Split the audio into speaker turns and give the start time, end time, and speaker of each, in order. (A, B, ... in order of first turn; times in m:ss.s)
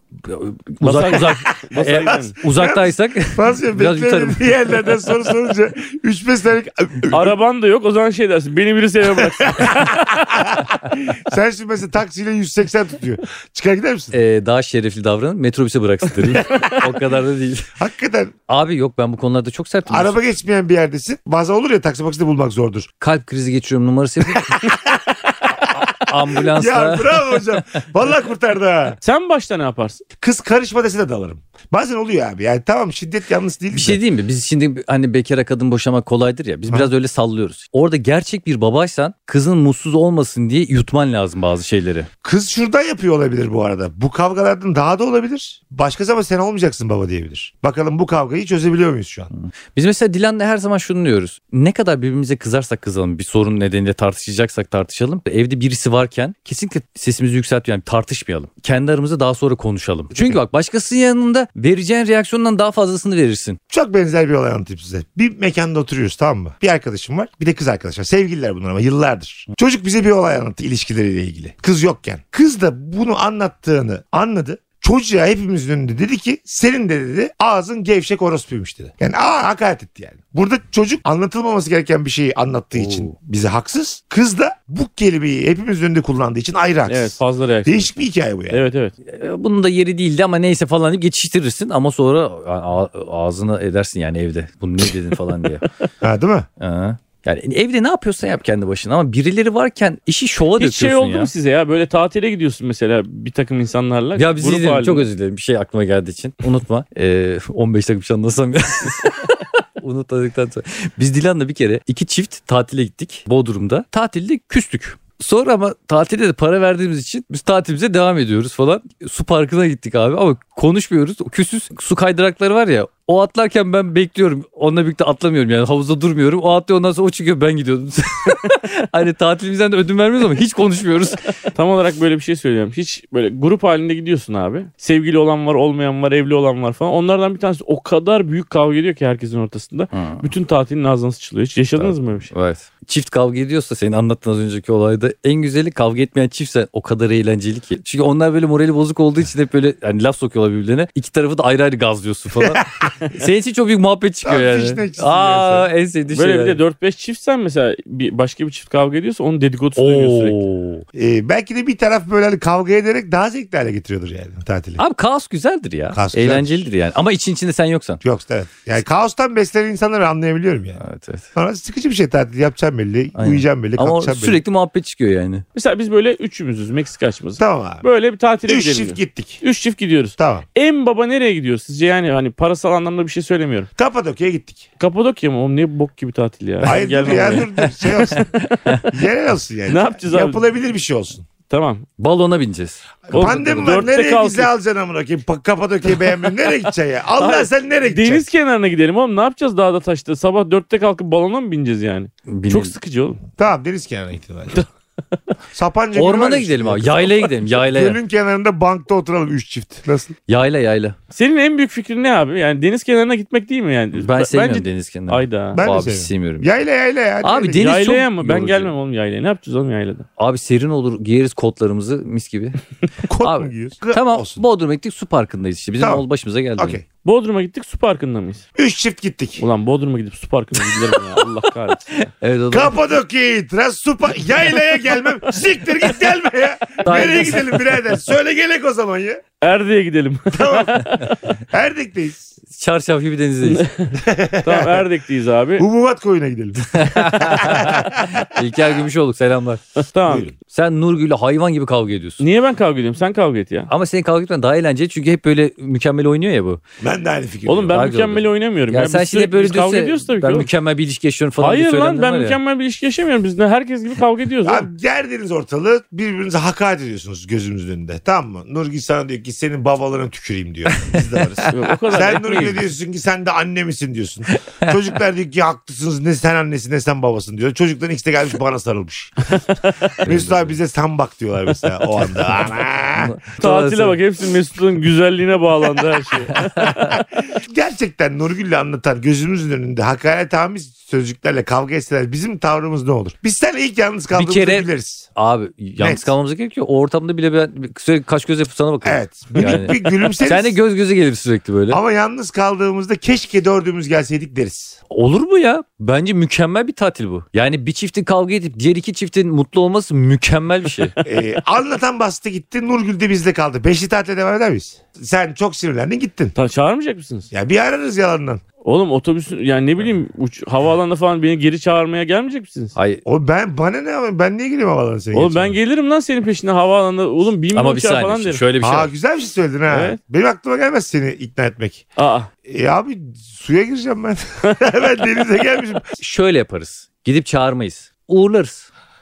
0:00.2-0:04.8 A
0:00.8-0:02.4 B
0:01.5-0:07.4 C
0:07.1-0:10.2 B
0:09.4-0:14.1 C
0:14.1-0:17.7 A
0:17.8-0:18.3 C
0:18.5-0:20.2 A
0:19.9-0:22.9 C
0:23.0-0:24.6 A
0:24.3-0:29.0 C
0:26.0-0:27.2 A
0:29.0-0:30.0 B
0:30.2-0:34.0 C
0:33.7-0:42.1 A
0:42.2-0:49.3 C
0:49.3-1:03.6 A
1:00.1-1:00.4 C
1:03.7-1:28.6 C
1:22.7-1:23.1 A
1:26.9-1:27.9 B
1:28.5-1:28.9 B
1:29.0-1:35.6 A
1:36.0-1:36.5 C
1:36.6-1:41.3 A
1:40.6-1:45.0 B
1:44.2-2:11.3 A
2:11.5-2:22.3 B
2:19.9-2:20.3 A
2:21.8-2:36.6 A
2:32.4-2:33.1 C
2:34.2-2:35.7 C
2:36.1-2:40.4 B
2:39.8-2:40.8 A
2:40.9-2:44.8 C
2:44.8-2:48.0 A
2:45.9-2:46.7 C
2:48.0-2:50.8 C
2:50.8-2:51.3 A
2:51.3-2:54.4 C
2:53.1-2:55.4 A
2:55.5-3:03.7 B
2:57.4-2:57.8 C
2:58.4-2:59.4 C
3:00.2-3:00.4 C
3:03.8-3:04.6 C
3:04.8-3:08.9 B
3:06.6-3:08.2 C
3:07.0-3:07.4 A
3:08.9-3:11.3 C
3:09.7-3:10.4 B
3:11.5-3:11.8 B
3:12.0-3:12.8 A
3:13.1-3:18.3 C
3:13.1-3:14.5 B
3:17.2-3:23.2 B
3:22.3-3:22.7 A
3:23.4-3:24.6 C
3:25.5-3:30.2 C
3:25.9-3:28.0 A
3:30.3-3:31.0 A
3:31.1-3:35.6 B
3:34.0-3:36.5 A
3:35.5-3:37.7 C
3:37.2-3:38.7 A
3:37.6-3:40.0 B
3:40.2-3:42.6 A
3:43.0-3:44.4 C
3:43.2-3:46.8 A
3:45.8-3:46.0 C
3:46.6-3:46.8 C
3:47.0-3:48.4 B
3:48.6-3:49.4 C
3:49.4-3:52.0 B
3:50.6-3:51.0 A
3:51.9-3:52.8 A
3:52.5-3:59.2 C
3:56.8-3:57.6 A
3:59.4-4:01.1 B
4:00.3-4:00.9 C
4:01.5-4:02.3 C
4:02.5-4:03.7 A
4:03.4-4:05.6 B
4:03.9-4:04.8 C
4:05.6-4:08.6 C
4:06.7-4:09.6 A
4:09.9-4:10.3 B
4:10.1-4:10.3 C
4:10.5-4:12.2 A
4:12.2-4:13.7 B
4:13.7-4:16.6 A
4:16.8-4:17.8 C
4:17.4-4:20.5 B
4:17.7-4:22.4 A
4:21.4-4:24.7 B
4:24.4-4:39.2 C
4:30.9-4:31.5 A
4:31.5-4:32.6 B
4:34.3-4:34.7 A
4:40.0-4:40.5 A
4:40.0-4:43.1 C
4:42.9-4:44.0 A
4:43.4-4:46.8 B
4:46.3-4:47.0 A
4:46.9-4:55.1 C
4:54.1-5:01.8 A
4:55.8-4:56.1 C
4:58.8-5:00.6 C
5:01.7-5:04.8 C
5:04.9-5:10.9 A
5:11.0-5:16.3 C
5:16.3-5:17.3 B
5:17.3-5:18.4 C
5:18.6-5:22.8 B
5:22.8-5:23.0 A
5:23.0-5:25.6 C
5:25.1-5:28.4 B
5:27.5-5:28.9 A
5:28.6-5:31.9 C
5:29.7-5:30.0 B
5:32.0-5:32.3 B
5:32.4-5:35.8 C
5:36.0-5:38.7 A